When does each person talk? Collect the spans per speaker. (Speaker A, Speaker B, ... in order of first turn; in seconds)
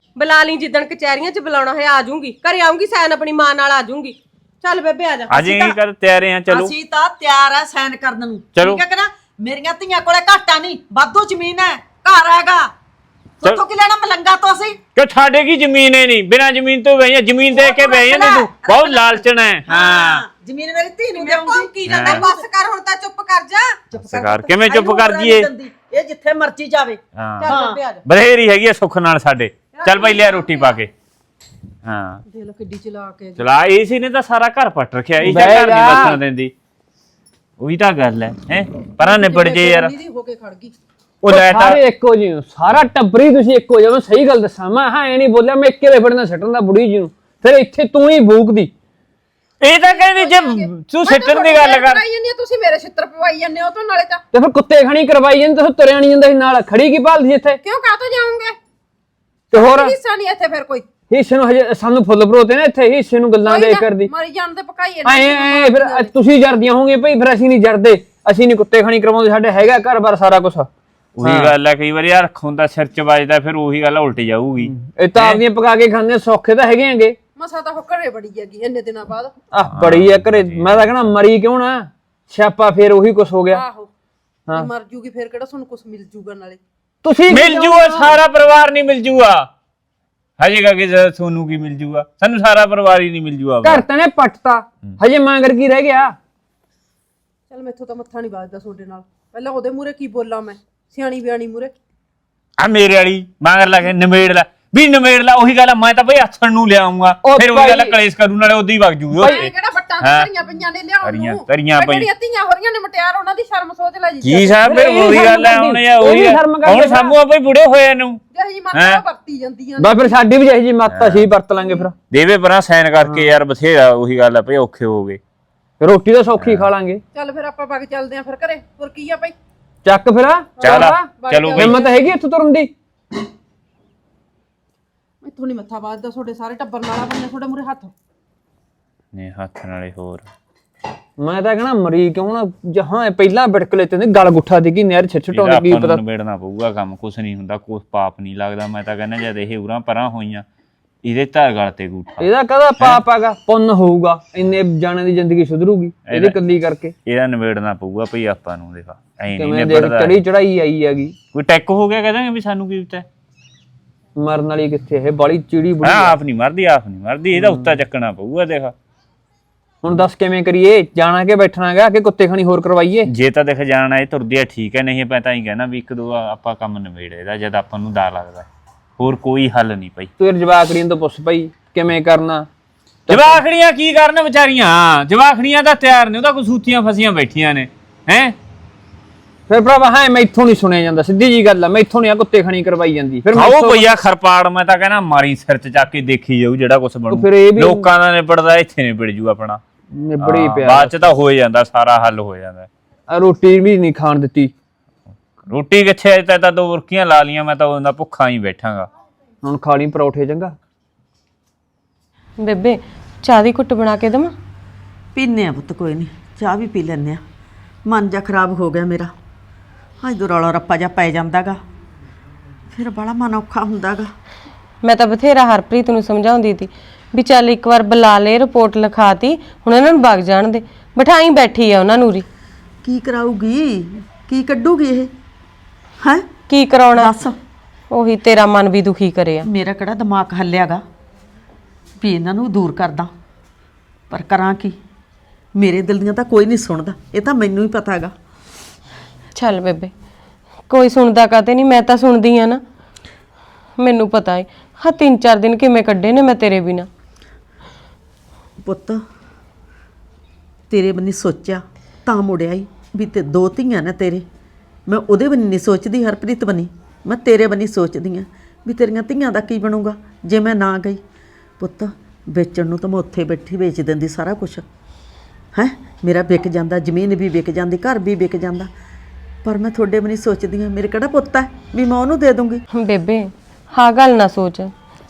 Speaker A: 0.2-5.8, 17.6-18.3, 21.1-23.8, 27.4-28.0, 29.7-30.8
Speaker B: 5.3-6.7, 8.6-8.8, 15.0-20.2, 21.9-22.2, 24.0-25.5, 27.1-27.5, 28.1-30.9, 31.9-32.2, 33.4-36.5, 37.6-39.9, 41.2-41.8, 49.6-52.0, 71.2-75.4, 79.7-81.1, 87.3-89.5, 90.4-93.8, 102.6-110.3, 111.0-112.1, 114.2-118.2, 118.7-119.0, 120.9-121.3, 122.1-125.2, 126.4-126.7, 130.6-131.8, 139.1-140.3, 145.3-150.4, 151.0-153.0, 156.1-156.4, 157.1-160.2, 161.3-163.1, 165.8-168.7, 173.1-178.5, 179.0-180.1, 183.1-188.4, 193.3-199.6, 200.2-202.7, 205.4-208.9
Speaker C: 6.5-12.7, 13.4-14.8, 18.1-22.4, 23.9-27.8, 215.2-217.2, 217.9-219.1, 220.0-221.6, 222.7-224.1, 232.8-235.1, 236.0-236.3, 236.9-237.4, 239.4-240.8, 242.0-243.1, 244.1-244.8, 245.6-248.1, 258.6-259.0, 260.7-264.2, 264.9-271.0, 271.6-274.7, 275.5-278.7, 279.4-282.6
Speaker D: 32.3-33.5, 39.0-40.7, 49.8-54.2, 57.6-58.6, 59.5-60.9, 63.4-66.1, 77.4-79.4, 83.5-83.9, 84.5-86.6, 97.5-101.7, 109.2-115.5, 118.3-120.2, 127.1-129.3, 130.6-131.9, 135.2-137.9
Speaker E: 35.2-36.2, 41.3-48.7, 54.3-57.6, 59.5-60.0, 61.1-64.1, 65.0-70.7, 71.2-71.5, 74.6-77.2, 79.5-83.6, 87.0-88.2, 93.6-96.2, 107.2-108.0, 109.1-109.5, 114.7-117.2, 119.8-122.0, 123.0-123.3, 125.8-127.0, 129.8-132.7, 141.2-146.0, 152.2-156.9, 159.3-161.2, 164.2-166.2, 167.4-167.8, 169.8-173.1, 180.2-182.5, 183.1-183.4, 189.5-193.9, 197.1-197.9, 200.0-201.0, 203.1-204.5, 209.4-210.6
Speaker F: 212.4-214.3, 224.8-232.2, 236.5-237.2, 237.9-239.5, 249.4-249.9, 250.7-252.6, 253.8-256.9, 282.7-284.7